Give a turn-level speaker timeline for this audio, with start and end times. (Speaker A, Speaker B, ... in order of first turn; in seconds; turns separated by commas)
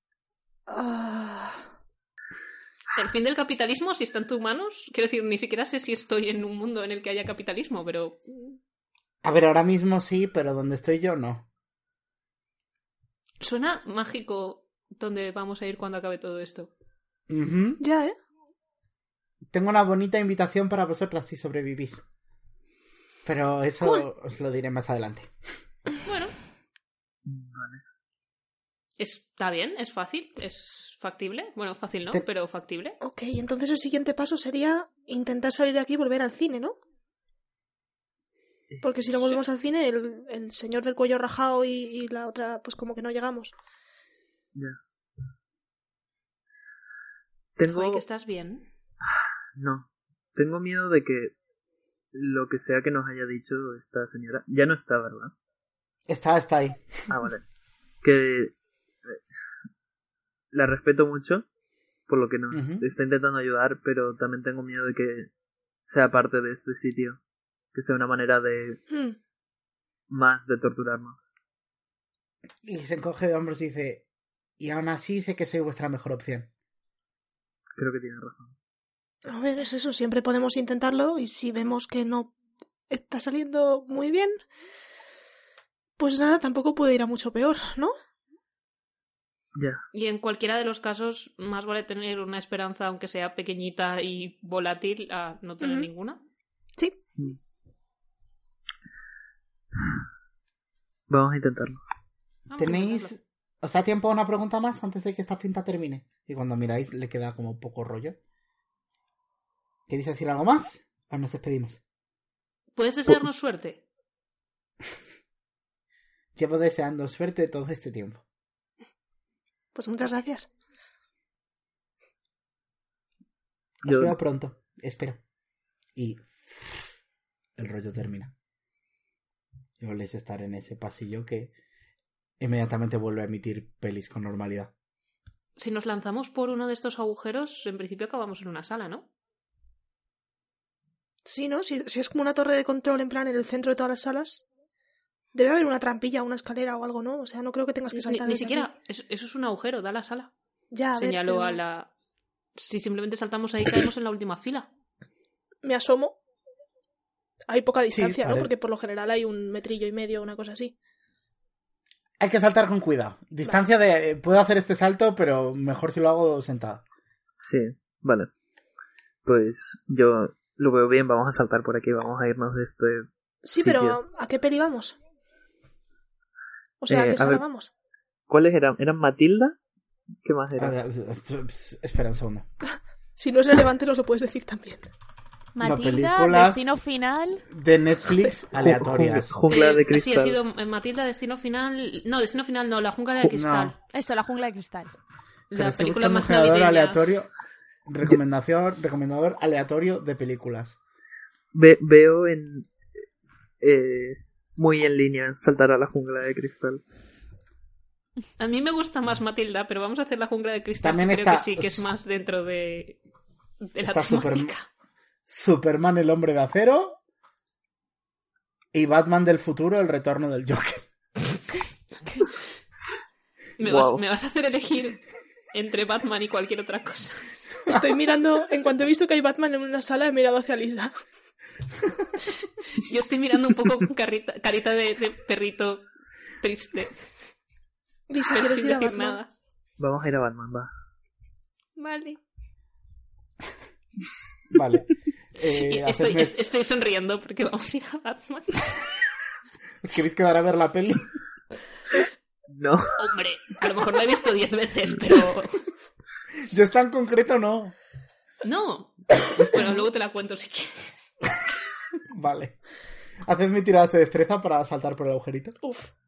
Speaker A: 0.7-1.7, Speaker B: 3.0-8.6, Speaker C: 9.2-11.5, Speaker B: 13.4-16.7, Speaker C: 17.3-17.8, Speaker A: 17.8-18.1, Speaker C: 19.5-22.0, Speaker C: 23.2-25.3, Speaker B: 26.1-26.4, Speaker D: 27.2-27.8, Speaker B: 29.0-33.0, Speaker A: 33.0-36.8, Speaker A: 38.8-43.5, Speaker B: 39.1-39.4, Speaker D: 44.5-44.8, Speaker D: 47.6-48.0, Speaker B: 47.7-48.7, Speaker D: 49.0-51.3, Speaker D: 52.1-55.3, Speaker C: 56.1-57.0, Speaker D: 57.1-57.4, Speaker D: 58.0-58.5, Speaker D: 60.5-61.5, Speaker D: 62.1-65.3, Speaker C: 62.5-62.8, Speaker D: 65.8-67.2, Speaker D: 67.7-68.8, Speaker A: 68.9-69.2, Speaker D: 70.1-71.2, Speaker C: 72.6-74.0, Speaker C: 74.6-76.5, Speaker D: 77.8-78.5, Speaker A: 79.3-82.3, Speaker A: 82.9-84.3, Speaker A: 86.0-87.9, Speaker D: 89.5-89.8, Speaker B: 89.9-96.2, Speaker A: 95.6-95.9, Speaker D: 101.1-101.8, Speaker B: 102.5-103.1, Speaker C: 102.6-108.2, Speaker C: 109.9-111.8, Speaker B: 112.8-113.8, Speaker C: 116.3-118.2, Speaker A: 119.8-120.5, Speaker D: 123.8-124.2, Speaker C: 123.8-125.2, Speaker C: 126.0-127.0, Speaker C: 127.6-128.3, Speaker C: 129.8-131.5, Speaker C: 132.4-134.7, Speaker B: 135.6-139.1, Speaker A: 141.2-144.5, Speaker A: 145.3-148.7, Speaker B: 147.9-150.3, Speaker A: 150.7-151.6, Speaker B: 151.0-151.9, Speaker B: 152.6-154.7, Speaker A: 155.6-156.2, Speaker A: 157.5-160.7, Speaker C: 157.9-158.5, Speaker C: 162.2-166.8, Speaker D: 167.4-168.3, Speaker D: 169.2-174.0, Speaker A: 173.4-175.0, Speaker A: 176.8-177.7, Speaker D: 176.9-177.4, Speaker D: 178.3-179.6, Speaker D: 180.2-180.8, Speaker C: 180.6-182.5, Speaker A: 183.2-184.9, Speaker E: 185.6-187.4, Speaker C: 185.6-186.8, Speaker C: 187.5-189.4, Speaker D: 188.6-190.4, Speaker B: 189.5-193.8, Speaker C: 193.3-193.7, Speaker E: 193.9-194.9, Speaker B: 195.5-197.0, Speaker C: 195.5-197.3, Speaker C: 197.9-200.8, Speaker D: 201.5-202.7, Speaker D: 203.6-206.8, Speaker B: 208.4-213.0, Speaker C: 210.8-211.9, Speaker B: 213.6-214.7, Speaker C: 213.8-214.5, Speaker C: 215.3-217.0, Speaker C: 218.7-220.9, Speaker B: 223.6-225.0, Speaker D: 223.6-224.0, Speaker B: 225.5-227.3, Speaker A: 227.7-230.9, Speaker B: 232.8-235.9, Speaker B: 236.4-237.0, Speaker A: 238.1-239.2, Speaker B: 238.3-239.3, Speaker D: 239.8-240.7, Speaker B: 241.8-242.2, Speaker C: 244.5-246.3, Speaker B: 245.5-248.8, Speaker C: 249.8-251.1, Speaker D: 252.5-253.0, Speaker B: 253.0-255.7, Speaker C: 256.5-257.8, Speaker B: 258.4-261.1, Speaker C: 259.4-259.9, Speaker C: 262.1-262.6, Speaker C: 263.2-265.6, Speaker A: 265.6-265.9